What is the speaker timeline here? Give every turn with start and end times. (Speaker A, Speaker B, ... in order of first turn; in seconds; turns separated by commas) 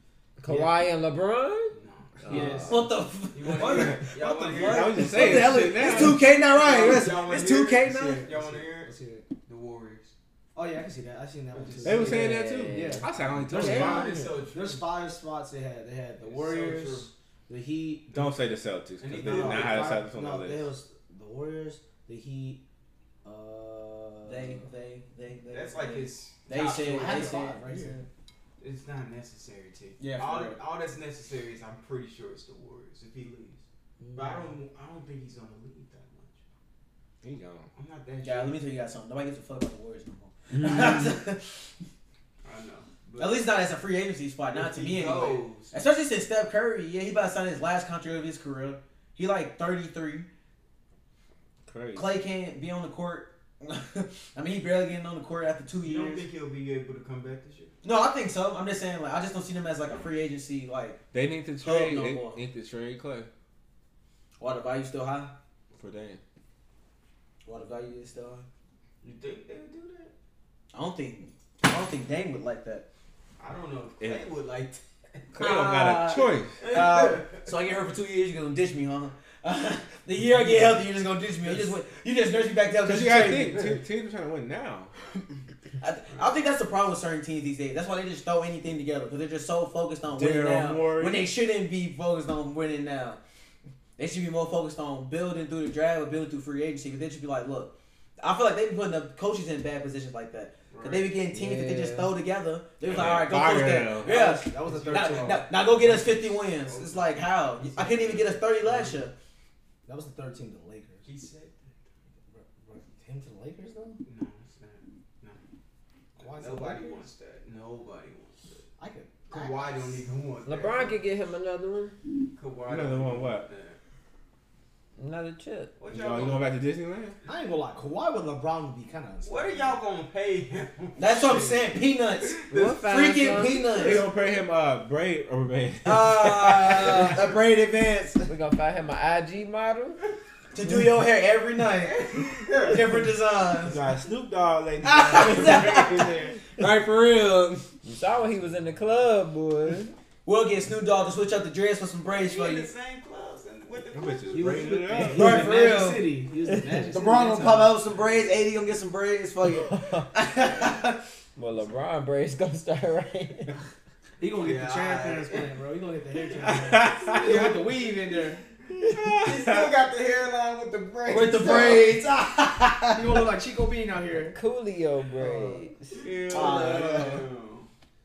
Speaker A: 0.4-2.8, Speaker B: 0.5-0.7, Speaker C: 1.7-2.5, Speaker B: 2.3-2.8, Speaker D: 2.7-8.3, Speaker C: 3.3-5.1, Speaker E: 3.6-6.2, Speaker B: 5.1-6.2, Speaker C: 6.4-8.9, Speaker B: 8.2-9.2, Speaker C: 9.4-10.1, Speaker B: 10.5-18.3, Speaker C: 11.5-12.2, Speaker E: 11.8-14.2, Speaker A: 12.0-13.1, Speaker C: 13.5-14.9, Speaker A: 13.6-14.3, Speaker C: 16.2-17.1, Speaker E: 18.1-20.7, Speaker C: 19.0-20.0, Speaker B: 19.1-22.6, Speaker B: 23.2-24.6, Speaker D: 24.2-28.0, Speaker C: 25.5-27.5, Speaker B: 26.5-28.0, Speaker C: 28.6-33.6, Speaker D: 30.0-30.6, Speaker B: 34.0-34.5, Speaker C: 34.1-36.4, Speaker E: 37.2-37.7, Speaker C: 37.7-38.6, Speaker D: 38.2-41.7, Speaker A: 40.5-41.0, Speaker C: 42.4-43.5, Speaker D: 43.2-50.3, Speaker C: 44.5-45.7, Speaker E: 51.6-52.1, Speaker D: 51.9-56.2, Speaker C: 55.8-57.7, Speaker D: 57.8-61.0, Speaker E: 61.1-63.3, Speaker D: 61.6-62.4, Speaker D: 64.4-65.3, Speaker E: 65.8-66.2, Speaker D: 67.4-68.5, Speaker C: 69.0-70.1, Speaker D: 70.7-72.8, Speaker C: 73.4-75.3, Speaker E: 74.0-74.3, Speaker E: 75.3-76.6, Speaker D: 75.4-83.7, Speaker C: 76.6-77.5, Speaker E: 82.8-84.9, Speaker D: 85.8-93.2, Speaker E: 90.1-91.3, Speaker D: 94.0-109.1, Speaker C: 100.7-101.2, Speaker A: 101.3-102.1, Speaker E: 102.8-105.4, Speaker B: 104.0-105.5, Speaker C: 105.1-108.4, Speaker B: 108.6-109.0, Speaker B: 109.8-111.1, Speaker C: 111.0-111.6, Speaker B: 112.3-114.0, Speaker C: 114.0-115.4, Speaker B: 116.2-117.1, Speaker C: 116.2-118.6, Speaker B: 118.8-120.0, Speaker C: 119.3-121.0, Speaker A: 120.4-121.9, Speaker C: 122.3-123.8, Speaker E: 122.7-123.5, Speaker A: 125.0-125.7, Speaker C: 125.8-126.6, Speaker E: 125.9-127.2, Speaker B: 127.2-129.8, Speaker C: 129.2-131.6, Speaker D: 131.0-134.1, Speaker C: 132.2-132.7, Speaker A: 132.5-133.8, Speaker C: 133.3-134.0, Speaker E: 133.8-137.2, Speaker D: 135.8-138.3, Speaker A: 138.3-140.0, Speaker D: 140.5-143.8, Speaker C: 141.8-142.9, Speaker E: 143.6-146.4, Speaker D: 144.8-147.7, Speaker A: 147.8-149.9, Speaker D: 150.2-152.7, Speaker C: 152.2-154.8, Speaker E: 153.9-155.5, Speaker B: 154.3-157.7, Speaker D: 155.1-156.1, Speaker D: 156.9-161.0, Speaker A: 159.5-160.1, Speaker A: 161.3-163.5, Speaker B: 164.2-168.4, Speaker C: 164.4-165.5, Speaker E: 166.4-167.5, Speaker C: 167.1-167.6, Speaker E: 168.8-169.7, Speaker C: 169.2-171.9, Speaker D: 171.1-173.2, Speaker B: 171.3-171.9, Speaker B: 172.9-174.4, Speaker A: 174.2-176.0, Speaker B: 175.2-175.7, Speaker C: 176.0-177.7, Speaker D: 176.3-177.2, Speaker B: 176.3-177.2